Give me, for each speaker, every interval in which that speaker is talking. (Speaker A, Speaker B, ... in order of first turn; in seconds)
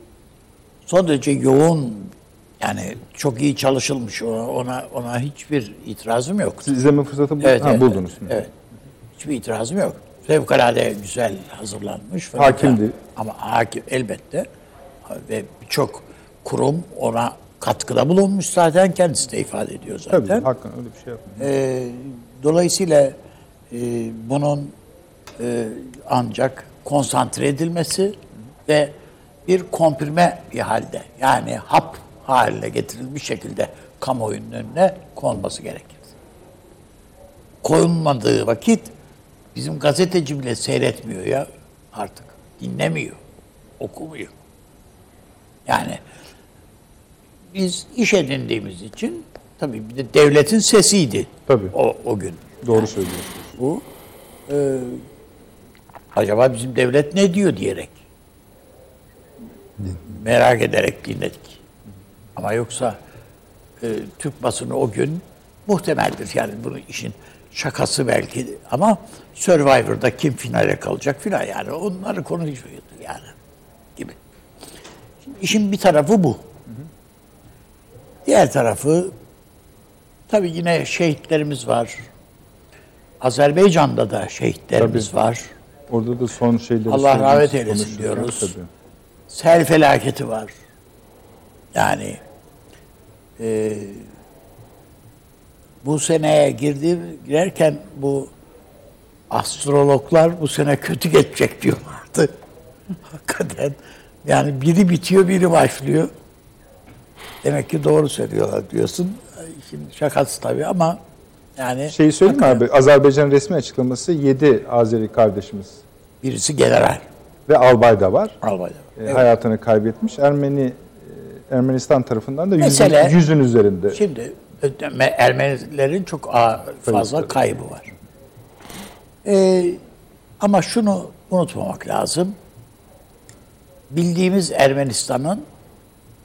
Speaker A: 0.9-6.7, 7.4-8.5, 9.2-14.5, 15.1-20.5, 21.4-23.2, 23.7-24.8, 25.4-36.2, 37.6-38.9, 39.5-43.2, 43.8-44.4, 45.7-46.0, 47.5-53.0, 53.5-53.9, 54.5-55.0, 56.1-58.0, 60.0-61.6, 62.4-63.0, 63.8-73.3, 75.2-76.5, 78.2-79.1, 80.3-82.1, 83.2-85.5, 86.9-88.5, 89.3-90.5, 91.7-92.2, 93.4-94.1, 95.8-98.3, 99.3-102.4, 103.0-106.1, 107.4-111.0, 111.6-112.6, 116.2-117.0, 118.4-119.2, 122.6-123.2, 123.9-127.9, 129.2-129.8, 130.4-132.4, 133.9-135.5
Speaker B: 6.7-8.5, 12.4-13.0, 20.1-21.5, 51.5-51.8, 52.6-53.5, 84.8-85.1, 85.9-88.7, 111.9-115.8, 117.5-118.4, 119.0-124.0, 126.9-127.2